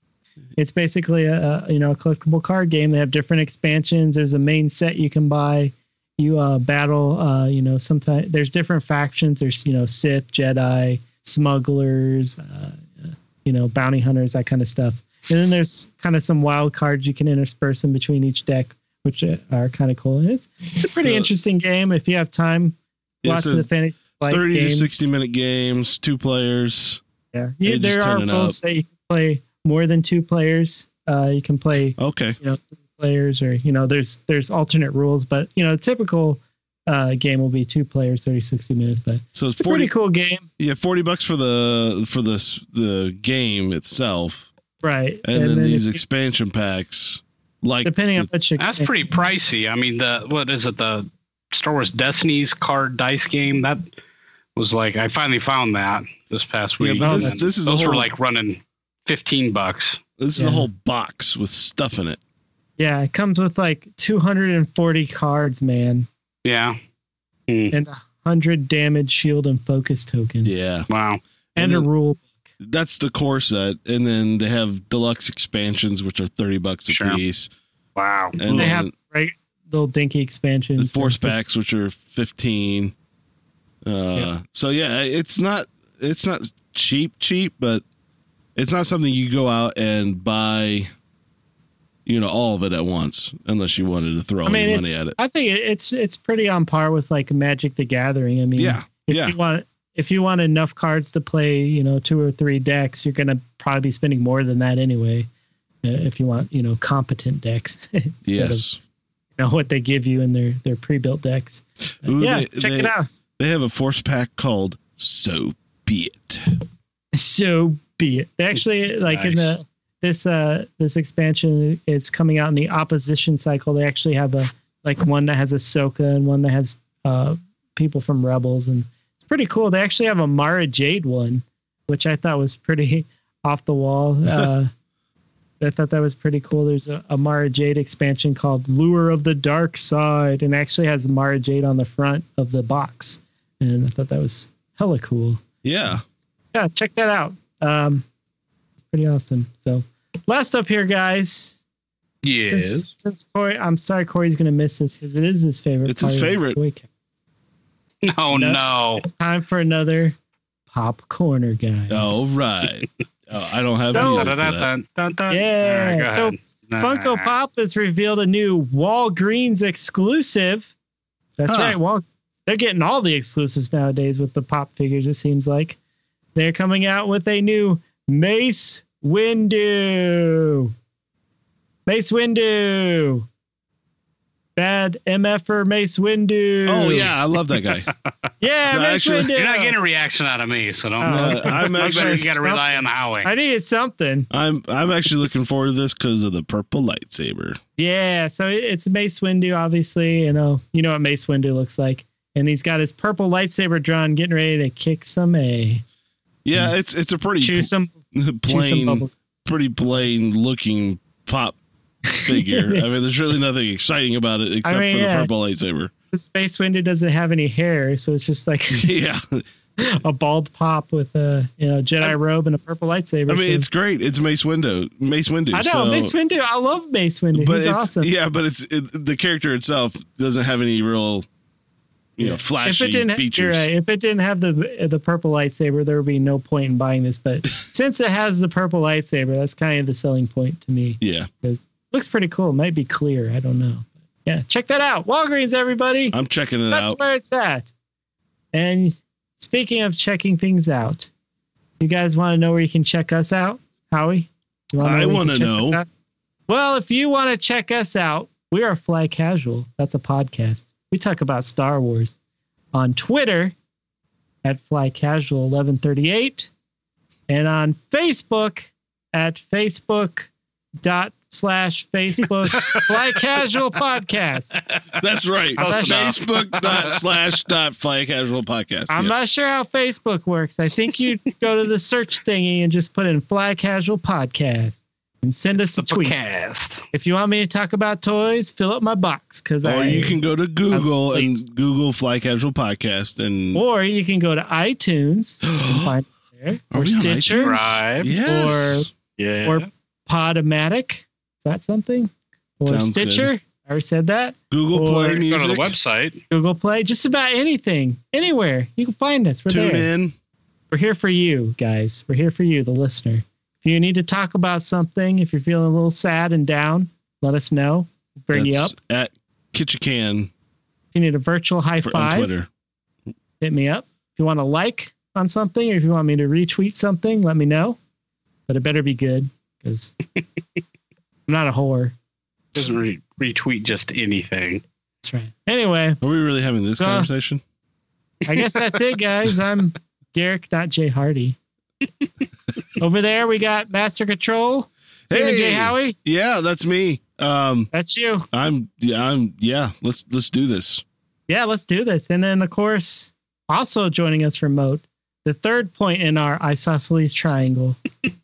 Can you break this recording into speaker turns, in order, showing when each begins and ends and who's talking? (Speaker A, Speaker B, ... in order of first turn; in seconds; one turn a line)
Speaker A: 0.6-24.9
Speaker B: 21.0-21.3
Speaker B: 23.2-23.7
Speaker B: 24.3-27.0
Speaker A: 27.3-40.5
Speaker B: 27.6-28.6
Speaker B: 32.0-32.4
Speaker B: 39.4-39.9
Speaker B: 40.6-44.5
Speaker A: 44.8-46.0
Speaker B: 45.2-48.3
Speaker A: 47.8-48.9
Speaker C: 48.6-53.9
Speaker C: 54.6-60.0
Speaker B: 56.8-58.1
Speaker A: 57.0-57.4
Speaker B: 60.2-62.2
Speaker A: 60.4-60.7
Speaker A: 62.8-66.1
Speaker C: 66.5-66.8
Speaker C: 67.5-67.7
Speaker A: 67.7-70.6
Speaker B: 70.5-70.9
Speaker C: 70.9-71.2
Speaker A: 71.6-72.3
Speaker B: 71.6-71.9
Speaker B: 72.6-77.5
Speaker C: 76.9-77.2
Speaker C: 78.0-78.7
Speaker B: 78.4-78.9
Speaker A: 78.5-81.4
Speaker B: 80.8-82.9
Speaker B: 83.8-87.8
Speaker B: 88.6-90.9
Speaker B: 92.1-95.2
Speaker A: 94.5-105.3
Speaker B: 98.6-99.4
Speaker A: 105.8-108.7
Speaker B: 108.2-108.8
Speaker A: 109.4-113.1
Speaker B: 112.0-116.6
Speaker A: 117.1-134.7
Speaker C: 119.1-119.5
Speaker A: 135.6-146.0
Speaker B: 145.6-146.0
Speaker A: 146.5-148.1
Speaker A: 148.8-151.6
Speaker C: 152.2-152.9
Speaker A: 152.5-156.9
Speaker B: 155.8-156.6
Speaker C: 158.0-159.0
Speaker A: 158.3-160.2
Speaker A: 160.7-162.2
Speaker B: 161.9-164.7
Speaker A: 163.9-164.3
Speaker C: 163.9-167.3
Speaker A: 165.3-170.7
Speaker A: 171.4-175.8
Speaker B: 171.5-171.8
Speaker A: 176.3-180.7
Speaker A: 181.9-183.3
Speaker A: 184.6-187.1
Speaker B: 186.7-187.9
Speaker A: 188.4-189.8
Speaker B: 188.7-189.3
Speaker C: 189.4-193.3
Speaker A: 191.0-194.3
Speaker B: 191.0-192.3
Speaker B: 194.3-197.6
Speaker A: 197.8-205.8
Speaker B: 206.4-211.6
Speaker A: 207.4-209.1
Speaker A: 212.1-212.8
Speaker B: 212.2-215.9
Speaker A: 214.6-215.3
Speaker A: 216.1-218.9
Speaker B: 218.7-219.4
Speaker A: 219.8-223.7
Speaker B: 223.3-226.1
Speaker A: 225.5-228.1
Speaker B: 227.3-231.3
Speaker B: 232.2-233.7
Speaker A: 232.2-246.2
Speaker B: 241.0-241.3
Speaker B: 246.1-247.0
Speaker A: 246.7-247.7
Speaker A: 248.5-251.1
Speaker A: 251.8-255.9
Speaker B: 254.8-255.8
Speaker A: 256.5-262.2
Speaker A: 262.7-263.6
Speaker A: 264.4-266.5
Speaker A: 267.3-270.3
Speaker A: 270.8-274.6
Speaker C: 272.6-272.9
Speaker B: 275.0-279.2
Speaker A: 275.6-276.2
Speaker C: 275.6-277.0
Speaker A: 278.9-286.2
Speaker C: 285.6-286.8
Speaker A: 286.9-291.4
Speaker B: 289.6-293.6
Speaker A: 293.5-298.9
Speaker B: 295.4-295.9
Speaker B: 296.7-298.9
Speaker C: 297.4-298.1
Speaker C: 299.2-299.6
Speaker A: 299.4-305.2
Speaker B: 302.7-303.3
Speaker B: 304.5-305.8
Speaker C: 305.2-306.2
Speaker A: 306.3-309.9
Speaker B: 309.5-310.1
Speaker A: 310.7-318.7
Speaker B: 318.3-320.3
Speaker A: 320.9-322.3
Speaker B: 321.8-322.5
Speaker A: 323.4-327.8
Speaker A: 328.5-330.0
Speaker A: 331.3-331.9
Speaker C: 332.6-334.6
Speaker A: 335.0-336.0
Speaker B: 336.0-337.4
Speaker A: 336.8-337.1
Speaker A: 338.2-341.4
Speaker A: 342.8-346.0
Speaker B: 345.1-347.7
Speaker A: 347.7-348.3
Speaker B: 348.3-350.8
Speaker A: 351.3-357.8